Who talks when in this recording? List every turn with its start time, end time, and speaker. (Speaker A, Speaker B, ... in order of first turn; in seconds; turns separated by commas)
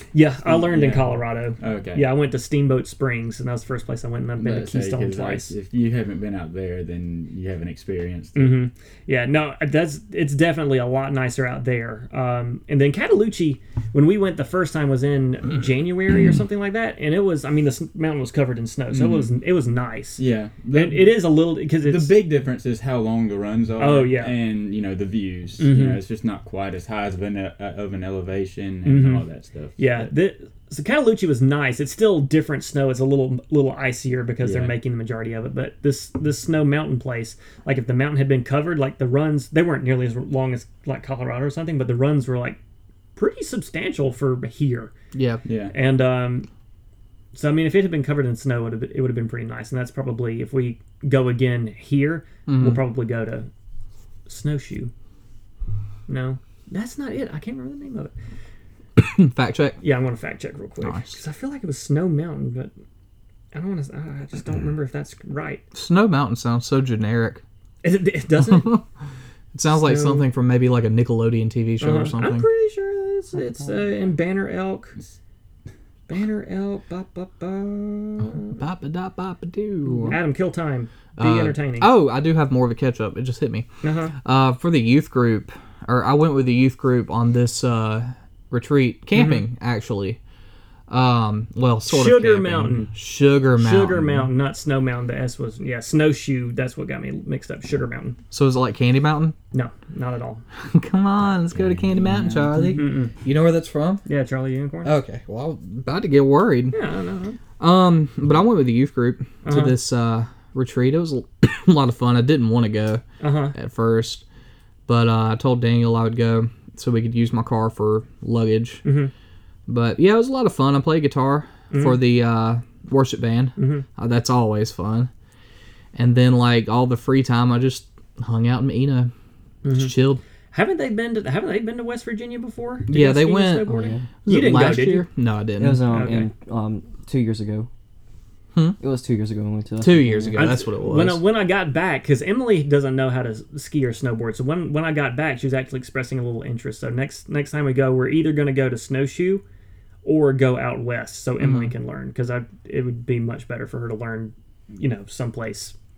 Speaker A: 0.1-5.5, Speaker B: 0.5-2.1, Speaker B: 4.4-8.6, Speaker A: 8.4-22.1, Speaker B: 18.9-19.3, Speaker B: 20.2-30.1, Speaker A: 23.8-24.3, Speaker A: 25.6-26.0, Speaker A: 28.9-29.2, Speaker A: 29.8-42.6, Speaker B: 34.4-34.8, Speaker A: 43.1-44.9, Speaker C: 45.1-45.4, Speaker B: 45.5-45.7, Speaker A: 45.7-46.5, Speaker A: 47.3-53.5, Speaker C: 52.5-52.8, Speaker A: 54.3-54.9, Speaker A: 56.1-58.1, Speaker C: 59.0-59.8, Speaker A: 59.8-62.7, Speaker C: 60.8-61.2, Speaker A: 63.5-65.6, Speaker C: 65.7-67.4, Speaker A: 67.8-68.8, Speaker C: 68.5-68.8, Speaker C: 69.5-72.5, Speaker A: 69.8-70.3, Speaker A: 71.8-75.0, Speaker A: 76.1-78.6, Speaker C: 78.6-80.2, Speaker A: 80.0-81.9, Speaker C: 81.2-83.7, Speaker A: 83.8-84.1, Speaker C: 84.2-90.2, Speaker A: 89.1-89.4, Speaker C: 90.9-94.3, Speaker A: 91.9-92.9, Speaker A: 93.5-98.2, Speaker C: 98.3-99.4, Speaker A: 99.5-100.4, Speaker C: 100.6-104.0, Speaker B: 101.5-102.8, Speaker A: 102.7-103.1, Speaker A: 104.1-104.9, Speaker C: 104.8-106.8, Speaker A: 106.7-107.4, Speaker C: 107.6-114.2, Speaker A: 109.4-109.8, Speaker A: 113.2-113.5, Speaker C: 114.9-118.8, Speaker A: 118.8-119.1, Speaker C: 119.7-125.1, Speaker A: 121.7-122.0, Speaker A: 123.6-123.9, Speaker C: 126.0-129.1, Speaker A: 129.6-129.9, Speaker C: 129.7-130.2, Speaker A: 130.5-135.1, Speaker C: 132.9-133.7, Speaker D: 133.7-134.0, Speaker C: 134.2-136.1, Speaker D: 135.6-137.7, Speaker A: 135.9-136.3, Speaker D: 138.8-140.6, Speaker C: 139.8-141.2, Speaker A: 140.4-149.4, Speaker A: 150.1-155.8, Speaker C: 151.4-151.7